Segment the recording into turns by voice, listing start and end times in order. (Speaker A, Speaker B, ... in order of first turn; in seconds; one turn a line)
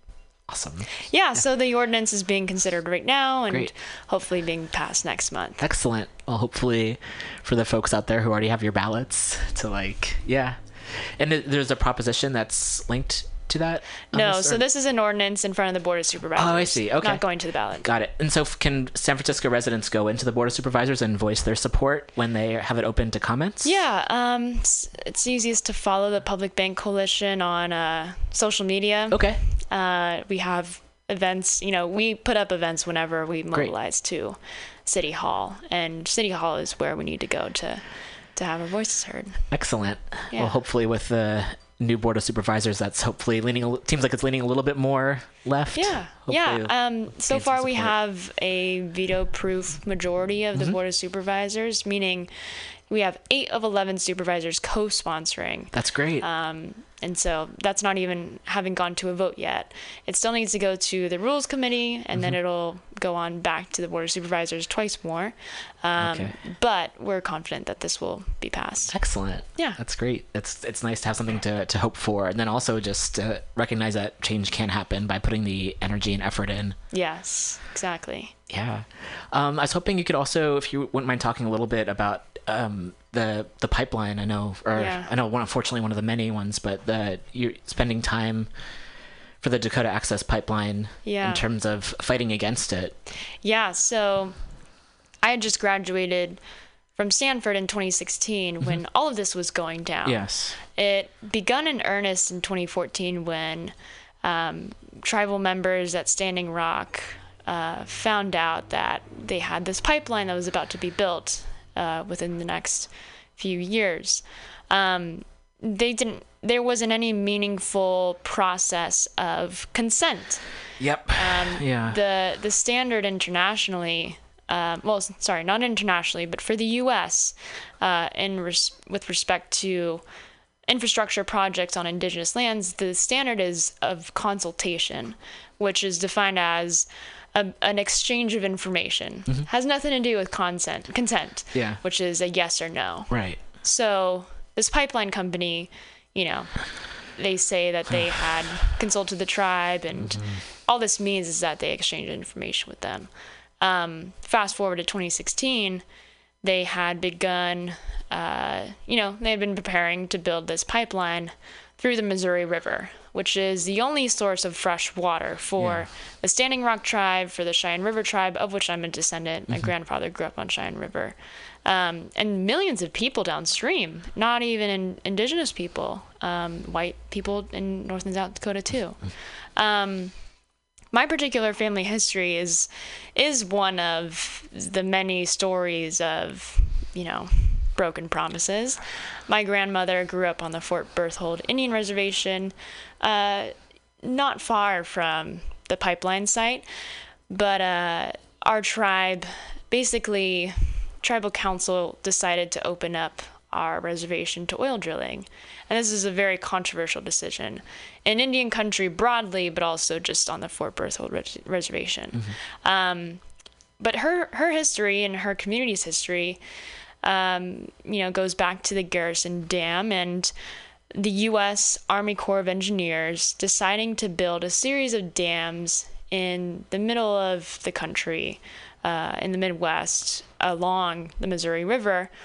Speaker A: 0.5-1.5
Speaker B: 1.1-5.6
Speaker A: 5.6-14.6
Speaker B: 14.1-17.9
Speaker A: 16.4-17.2
Speaker A: 17.8-23.7
Speaker B: 23.6-39.4
Speaker A: 29.1-29.4
Speaker A: 39.5-48.0
Speaker B: 40.3-40.6
Speaker B: 45.7-52.3
Speaker B: 52.9-69.0
Speaker A: 55.7-56.3
Speaker A: 66.0-66.4
Speaker A: 68.9-76.8
Speaker B: 76.9-78.3
Speaker A: 78.5-88.5
Speaker B: 84.7-85.1
Speaker A: 89.4-93.0
Speaker B: 91.0-91.5
Speaker B: 93.4-94.3
Speaker B: 95.2-96.4
Speaker B: 97.0-120.4
Speaker A: 100.0-100.6
Speaker A: 120.8-122.0
Speaker B: 121.2-130.0
Speaker B: 130.7-155.8
Speaker A: 141.5-141.8
Speaker A: 143.1-143.4
Speaker A: 149.9-150.4
Speaker B: 156.4-180.1
Speaker A: 165.6-165.9
Speaker B: 180.9-196.7
Speaker B: 197.3-213.2
Speaker B: 213.8-216.4
Speaker B: 217.0-220.3
Speaker B: 220.9-232.1